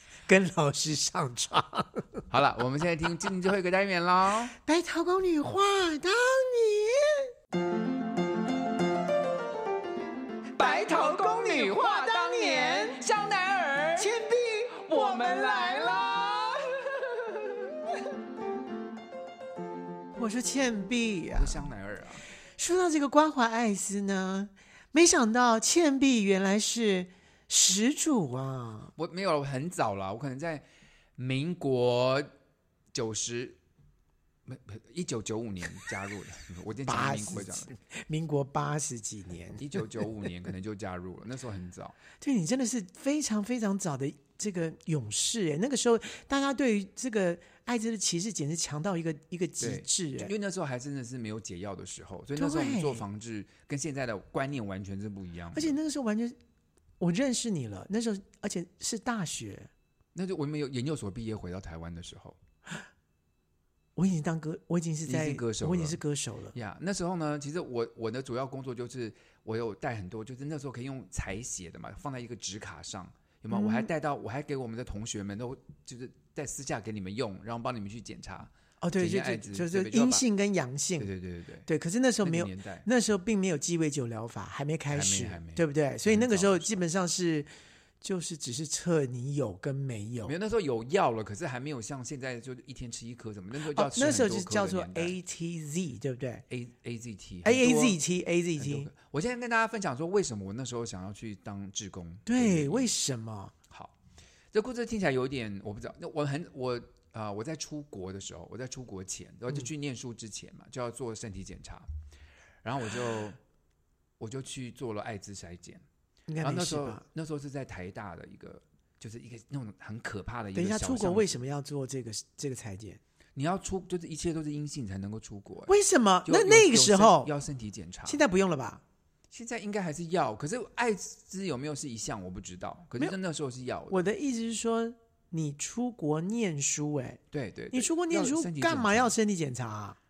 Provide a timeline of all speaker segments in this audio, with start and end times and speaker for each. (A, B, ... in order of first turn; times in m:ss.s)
0:00.3-0:02.2 A
0:02.3-0:04.6 B
0:04.6-0:07.3 A
0:10.6-0:14.1 C
0:10.6-0:13.0 A
0:14.0-0:15.9 A
0:14.8-0:17.5 C
0:20.1-0:21.7 A
0:21.3-0:22.2 B
0:22.6-0:28.9 A
0:29.0-0:30.6 B
0:31.2-0:32.3 B
0:32.9-0:33.6 B
0:34.4-0:37.7 B
0:36.9-0:40.0 A
0:39.6-0:42.0 B
0:42.2-0:50.3 A
0:49.6-0:55.8 B
0:52.4-0:53.0 A
0:55.5-0:56.4 A
0:57.0-0:59.7 A
1:00.1-1:02.4 B
1:04.0-1:06.6 A
1:05.0-1:06.0 B
1:06.5-1:20.2 B
1:13.5-1:13.9 A
1:18.8-1:21.1 A
1:21.0-1:21.7 B
1:21.7-1:27.5 A
1:22.2-1:22.9 B
1:24.9-1:26.8 B
1:28.0-1:30.3 A
1:30.2-1:35.1 B
1:33.7-1:36.4 A
1:36.5-1:38.0 B
1:37.4-1:38.9 A
1:38.6-1:42.9 B
1:42.3-1:43.5 A
1:44.5-1:51.9 B
1:52.6-1:53.4 B
1:54.2-1:55.8 B
1:56.3-1:57.0 A
1:56.4-2:01.4 B
2:00.6-2:03.0 A
2:03.4-2:05.7 B
2:05.7-2:07.3 A
2:06.2-2:08.2 B
2:08.1-2:08.8 A
2:09.3-2:14.0 B
2:13.9-2:17.2 A
2:17.3-2:19.1 B
2:17.7-2:20.0 A